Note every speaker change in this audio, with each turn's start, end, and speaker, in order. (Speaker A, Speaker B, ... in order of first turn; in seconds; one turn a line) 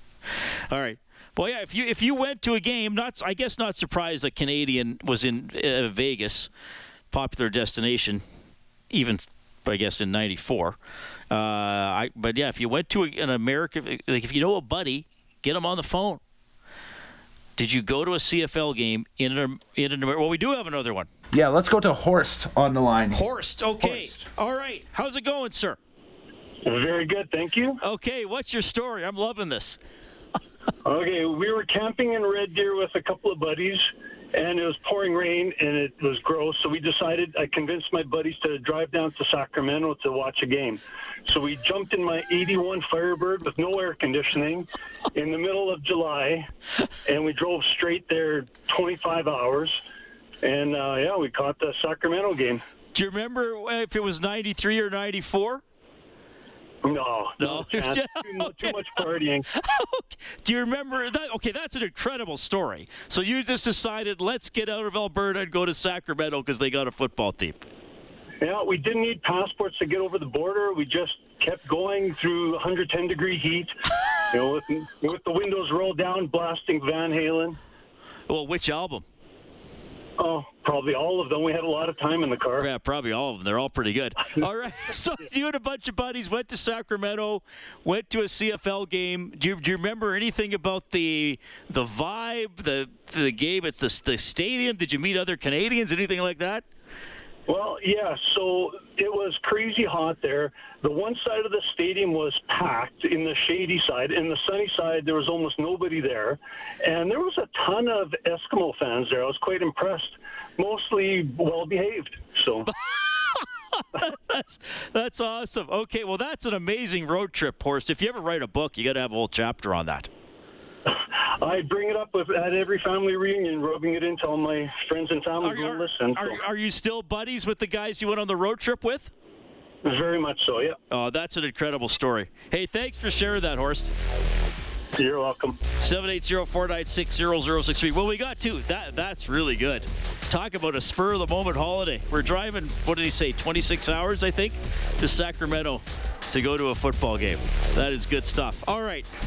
Speaker A: 0.7-6.5
Speaker A: 7.1-8.2
Speaker A: 8.9-10.8
Speaker A: 11.3-16.2
Speaker A: 17.6-21.1
Speaker B: 21.3-24.3
Speaker A: 23.1-25.8
Speaker C: 26.6-27.8
Speaker A: 27.8-29.8
Speaker C: 30.8-46.5
Speaker C: 47.0-49.8
Speaker C: 50.4-52.6
Speaker A: 52.9-55.6
Speaker C: 56.8-59.5
Speaker A: 57.4-67.7
Speaker C: 68.4-73.7
Speaker C: 74.3-77.6
Speaker A: 78.3-79.0
Speaker C: 80.2-82.6
Speaker A: 82.6-96.6
Speaker C: 97.5-112.7
Speaker A: 112.7-120.1
Speaker C: 120.9-126.4
Speaker A: 125.4-129.1
Speaker C: 129.8-130.8
Speaker A: 130.9-133.9
Speaker C: 135.0-135.6
Speaker A: 135.8-149.1